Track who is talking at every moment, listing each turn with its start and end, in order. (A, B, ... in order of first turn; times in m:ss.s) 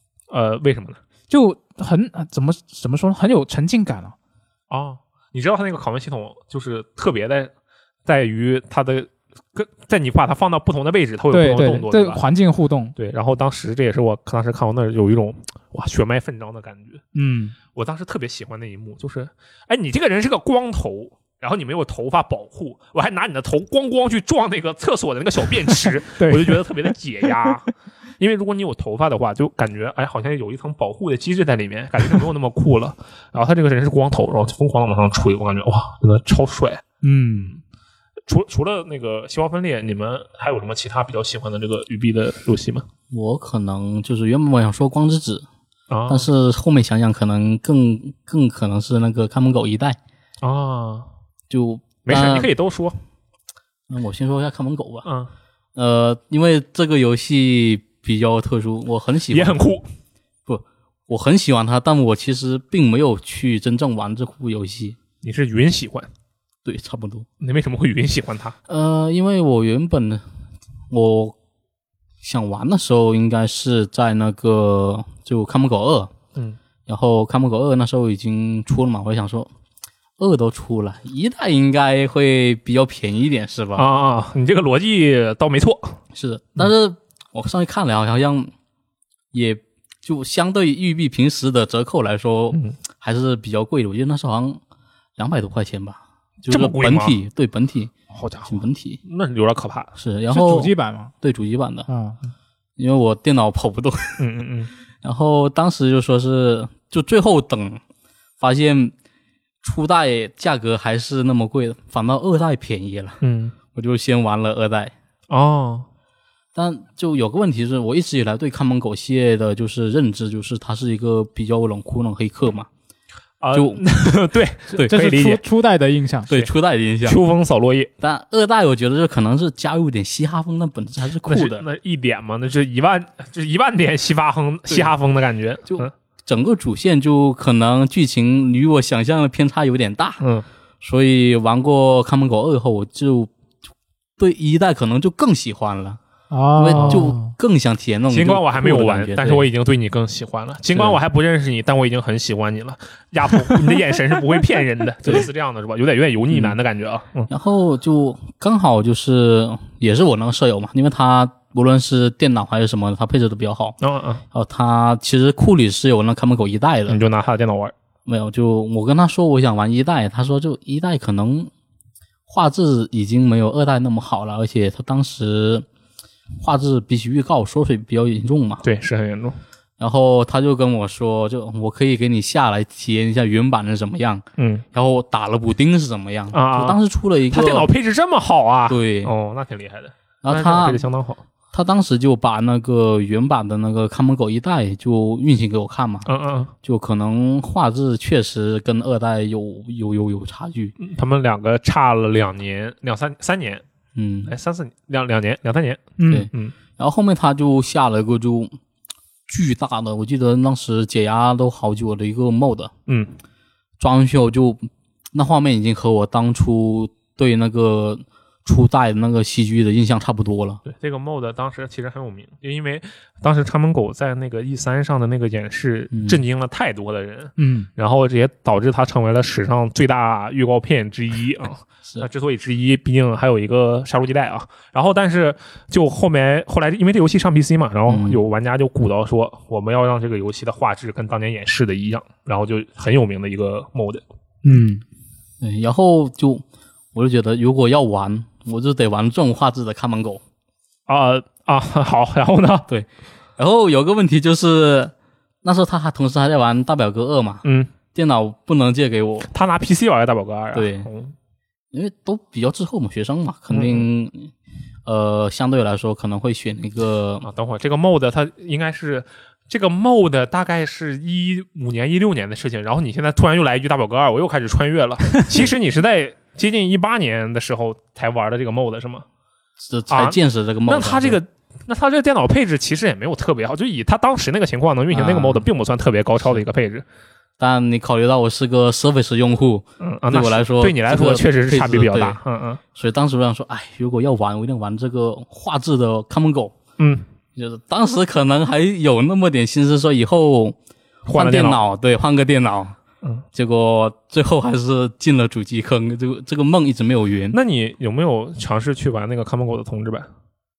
0:00.3-0:01.0 A
0:01.3-0:04.1 B
0:04.7-0:07.5 A
0:08.0-0:12.2 A
0:11.3-0:12.9 B
0:13.0-0:17.0 A
0:17.1-0:17.5 B
0:17.7-0:36.8 A
0:25.8-0:26.6 B
0:37.0-0:37.6 B
0:38.3-0:42.9 A
0:43.1-0:45.4 C
0:45.9-0:46.3 A
0:46.1-0:50.0 C
0:50.4-0:51.1 A
0:51.5-0:52.5 C
0:52.0-0:53.0 A
0:53.9-0:55.0 C
0:55.0-0:55.3 A
0:55.8-0:59.6 C
0:59.3-0:59.8 A
1:00.4-1:05.0 C
1:05.2-1:06.1 A
1:06.6-1:07.2 C
1:07.4-1:08.6 A
1:08.7-1:10.2 C
1:10.9-1:11.4 C
1:12.2-1:16.1 C
1:16.9-1:19.5 C
1:20.2-1:23.9 C
1:23.8-1:26.0 A
1:26.1-1:28.5 C
1:29.3-1:34.6 C
1:35.2-1:37.9 C
1:36.5-1:37.2 A
1:38.1-1:38.5 B
1:38.5-1:39.0 C
1:39.0-1:39.9 A
1:40.0-1:41.9 C
1:40.3-1:41.1 B
1:41.9-1:42.2 B
1:42.8-1:44.2 C
1:44.2-1:44.7 A
1:45.0-1:47.8 C
1:48.4-1:48.9 C
1:49.6-1:53.2 C
1:53.2-1:53.5 A
1:53.7-1:54.9 C
1:55.3-1:55.9 A
1:56.5-2:02.7 C
2:03.4-2:05.4 A
2:03.5-2:04.1 C
2:04.7-2:06.3 B
2:06.3-2:07.2 C
2:07.0-2:07.9 A
2:08.0-2:11.6 C
2:11.2-2:15.9 A
2:15.7-2:20.2 C
2:20.2-2:20.4 A
2:20.8-2:23.3 C
2:24.2-2:26.0 C
2:26.3-2:27.3 B
2:26.5-2:29.5 C
2:26.7-2:27.1 A
2:28.1-2:37.3 A
2:30.7-2:31.0 C
2:36.3-2:36.6 C
2:37.3-2:43.8 C
2:43.8-2:44.2 A
2:44.3-2:47.0 C
2:46.9-2:47.7 A
2:48.0-2:51.5 C
2:52.3-2:55.6 C
2:56.4-2:58.6 C
2:58.6-2:59.4 A
2:59.8-3:07.7 C
3:04.4-3:04.6 A
3:06.3-3:06.8 A
3:07.3-3:11.2 A
3:08.7-3:09.1 C
3:10.2-3:10.8 C
3:11.5-3:16.1 C
3:16.0-3:16.5 A
3:16.6-3:20.7 C
3:20.8-3:23.6 A
3:23.9-3:24.3 C
3:24.3-3:26.6 A
3:26.0-3:26.3 B
3:26.1-3:28.5 C
3:29.3-3:32.7 C
3:32.9-3:33.1 A
3:33.8-3:40.6 C
3:40.6-4:04.0 A
3:45.9-3:46.2 C
3:47.4-3:47.7 B
3:57.9-3:58.2 C
4:04.4-4:04.8 B
4:05.4-4:10.2 C
4:10.9-4:12.7 A
4:12.7-4:19.3 C
4:17.4-4:17.7 A
4:19.3-4:21.1 A
4:20.5-4:20.9 C
4:21.7-4:24.3 C
4:23.5-4:23.9 A
4:24.8-4:27.2 C
4:27.2-4:39.0 A
4:39.6-4:41.2 C
4:39.9-4:46.8 A
4:44.9-4:45.4 C
4:47.4-4:52.2 C
4:49.8-4:52.6 A
4:52.7-4:56.6 C
4:56.8-4:57.0 A
4:57.4-5:02.8 C
5:01.1-5:01.6 A
5:03.3-5:07.4 C
5:07.3-5:10.1 A